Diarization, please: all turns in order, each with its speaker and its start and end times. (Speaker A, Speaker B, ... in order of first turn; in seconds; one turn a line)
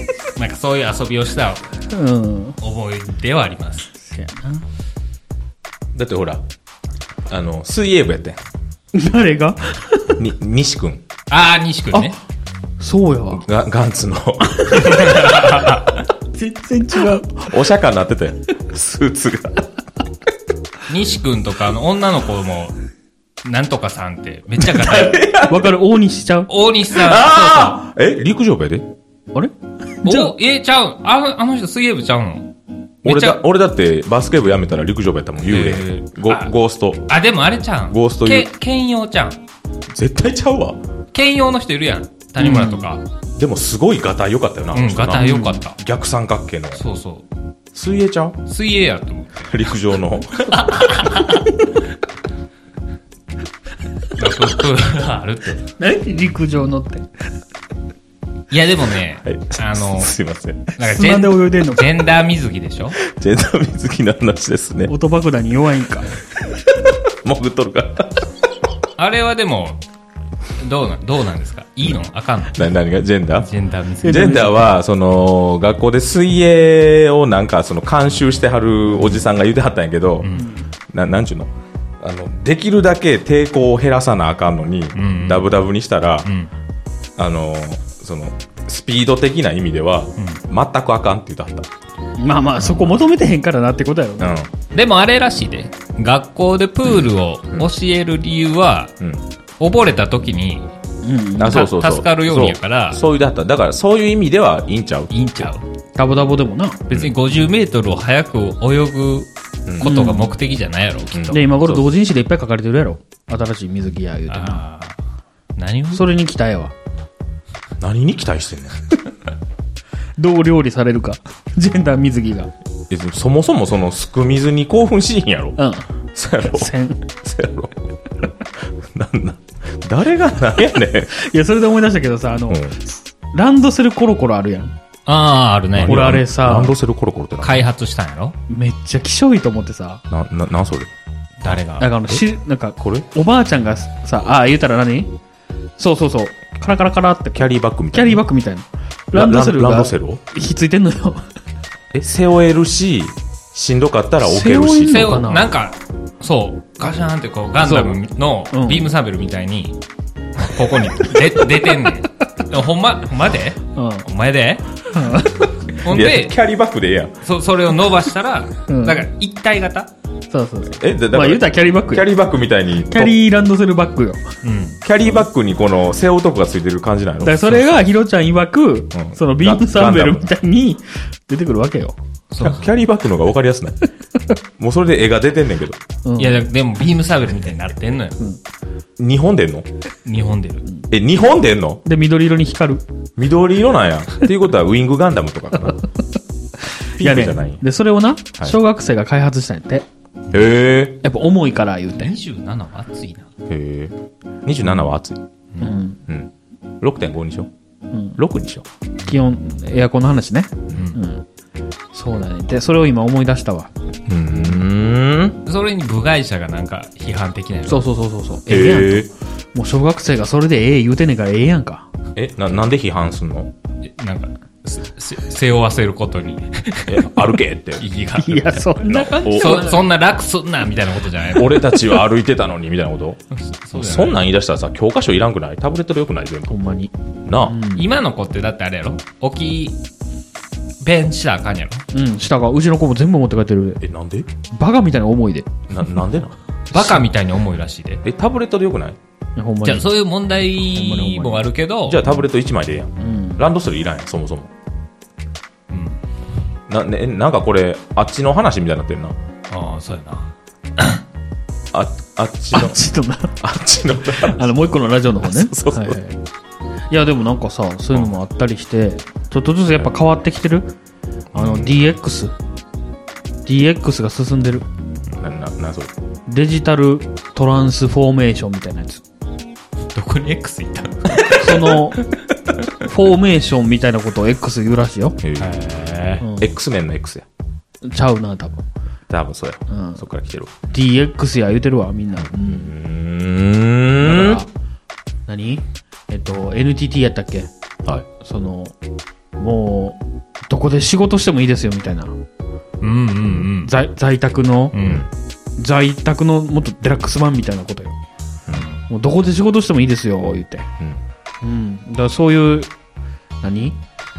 Speaker A: 0.3-1.7
Speaker B: 1.9-2.6
Speaker A: 2.6-3.9
Speaker B: 4.0-4.6
Speaker C: 5.9-6.4
Speaker C: 7.3-8.4
Speaker B: 8.9-10.2
Speaker C: 10.2-11.0
Speaker A: 11.3-12.2
Speaker B: 12.8-13.4
Speaker C: 13.4-15.8
Speaker A: 14.8-15.9
Speaker B: 16.3-17.5
Speaker C: 17.3-19.6
Speaker A: 20.9-22.8
Speaker A: 23.4-25.2
Speaker C: 24.6-25.7
Speaker B: 25.5-26.5
Speaker A: 26.5-27.8
Speaker C: 26.9-28.9
Speaker B: 29.3-30.3
Speaker A: 30.0-32.5
Speaker C: 33.0-37.1
Speaker A: 33.0-33.4
Speaker A: 35.4-36.5
Speaker A: 37.1-39.4
Speaker C: 37.9-38.5
Speaker C: 39.9-40.8
Speaker A: 41.1-43.0
Speaker B: 42.4-42.9
Speaker C: 43.4-46.8
Speaker A: 44.7-45.8
Speaker B: 45.1-45.6
Speaker A: 46.8-47.3
Speaker C: 47.7-48.4
Speaker A: 48.5-49.5
Speaker C: 49.5-50.9
Speaker A: 50.5-51.5
Speaker A: 54.1-55.6
Speaker B: 55.8-57.1
Speaker A: 58.5-60.1
Speaker C: 59.2-60.7
Speaker A: 60.8-63.0
Speaker B: 60.8-61.9
Speaker C: 63.0-64.9
Speaker B: 64.9-66.1
Speaker C: 67.1-68.3
Speaker A: 69.0-69.8
Speaker A: 70.6-72.7
Speaker C: 72.5-73.5
Speaker A: 73.4-74.6
Speaker C: 74.0-80.3
Speaker B: 74.0-74.5
Speaker A: 80.2-80.5
Speaker B: 80.3-80.7
Speaker C: 80.9-81.5
Speaker C: 82.0-86.3
Speaker A: 85.0-85.5
Speaker A: 86.2-86.5
Speaker C: 87.2-91.7
Speaker B: 92.2-94.3
Speaker C: 94.2-94.5
Speaker A: 94.7-98.9
Speaker C: 96.8-97.7
Speaker A: 99.6-100.7
Speaker B: 101.0-101.7
Speaker C: 101.4-105.1
Speaker A: 101.5-103.0
Speaker A: 105.1-105.7
Speaker B: 106.0-106.9
Speaker A: 106.9-111.4
Speaker C: 109.7-110.0
Speaker B: 109.8-110.3
Speaker C: 111.1-111.8
Speaker B: 111.3-114.6
Speaker A: 114.3-115.0
Speaker A: 115.5-116.0
Speaker B: 115.9-116.7
Speaker C: 117.8-118.8
Speaker B: 120.2-122.5
Speaker C: 122.9-125.6
Speaker B: 125.6-125.9
Speaker C: 126.1-127.9
Speaker B: 126.4-127.0
Speaker C: 128.6-131.1
Speaker B: 131.1-134.7
Speaker C: 132.5-132.8
Speaker A: 135.1-136.2
Speaker C: 135.7-137.6
Speaker B: 135.8-136.7
Speaker A: 137.4-138.4
Speaker B: 138.5-140.0
Speaker C: 140.1-140.9
Speaker A: 141.4-141.9
Speaker C: 141.4-142.2
Speaker B: 141.8-145.1
Speaker C: 142.8-143.1
Speaker B: 145.8-151.2
Speaker C: 147.3-148.2
Speaker C: 149.1-150.2
Speaker C: 151.9-155.2
Speaker B: 154.2-155.5
Speaker A: 154.8-159.8
Speaker B: 157.6-158.0
Speaker B: 158.5-158.9
Speaker A: 160.4-164.9
Speaker B: 163.7-164.1
Speaker B: 164.9-165.6
Speaker A: 165.8-166.3
Speaker C: 165.8-167.2
Speaker A: 167.2-169.9
Speaker B: 168.7-169.1
Speaker B: 170.3-172.1
Speaker C: 170.7-173.2
Speaker B: 172.8-174.3
Speaker A: 174.4-174.8
Speaker C: 174.8-177.6
Speaker B: 177.2-181.9
Speaker C: 178.9-180.3
Speaker A: 182.3-182.7
Speaker C: 182.4-183.8
Speaker C: 184.6-185.8
Speaker B: 186.0-186.4
Speaker A: 186.2-188.2
Speaker C: 189.0-189.7
Speaker A: 190.0-190.7
Speaker C: 190.9-191.8
Speaker B: 191.8-192.8
Speaker C: 193.2-195.8
Speaker B: 196.8-199.8
Speaker C: 197.0-197.6
Speaker C: 200.3-201.0
Speaker B: 201.0-202.2
Speaker A: 201.9-203.3
Speaker C: 203.4-205.2
Speaker B: 205.6-206.0
Speaker C: 206.1-207.5
Speaker B: 207.9-208.2
Speaker C: 208.1-208.7
Speaker B: 209.1-211.2
Speaker A: 210.7-211.0
Speaker B: 211.9-213.7
Speaker C: 214.1-215.4
Speaker A: 215.4-217.8
Speaker B: 217.7-221.9
Speaker C: 218.5-219.1
Speaker C: 222.1-223.5
Speaker A: 223.8-227.2
Speaker C: 226.9-227.8
Speaker A: 227.8-231.8
Speaker B: 228.2-229.8
Speaker C: 228.8-229.7
Speaker C: 231.3-233.2
Speaker A: 233.3-234.2
Speaker C: 233.7-236.6
Speaker B: 236.5-237.9
Speaker C: 237.2-237.6
Speaker A: 237.7-239.8
Speaker A: 240.8-241.8
Speaker B: 241.9-243.8
Speaker C: 243.8-244.3
Speaker B: 244.5-245.5
Speaker C: 245.7-247.0
Speaker A: 246.7-248.0
Speaker C: 248.0-249.0
Speaker B: 249.4-249.9
Speaker A: 249.6-252.0
Speaker B: 250.6-251.5
Speaker C: 251.8-254.5
Speaker B: 253.0-253.4
Speaker A: 255.7-256.0
Speaker C: 256.7-259.2
Speaker A: 259.5-261.0
Speaker C: 261.7-262.8
Speaker B: 262.5-263.4
Speaker C: 263.4-266.0
Speaker B: 264.1-266.2
Speaker B: 266.9-270.7
Speaker C: 271.3-271.8
Speaker B: 271.3-272.3
Speaker B: 273.4-274.7
Speaker C: 275.1-275.9
Speaker B: 276.3-279.0
Speaker A: 279.9-281.9
Speaker B: 281.3-282.0
Speaker B: 282.8-285.2
Speaker C: 285.2-287.2
Speaker A: 285.4-286.2
Speaker B: 286.2-286.5
Speaker B: 287.8-288.6
Speaker C: 289.1-290.5
Speaker B: 289.7-290.0
Speaker B: 290.7-292.7
Speaker C: 292.1-294.4
Speaker B: 294.0-294.5
Speaker B: 295.3-297.5
Speaker B: 298.2-298.8
Speaker B: 299.4-302.1
Speaker A: 302.8-303.7
Speaker B: 303.6-304.8
Speaker A: 304.7-305.1
Speaker C: 304.8-305.1
Speaker B: 305.6-308.0
Speaker A: 308.5-308.8
Speaker B: 308.9-310.7
Speaker B: 311.4-312.7
Speaker B: 313.4-313.8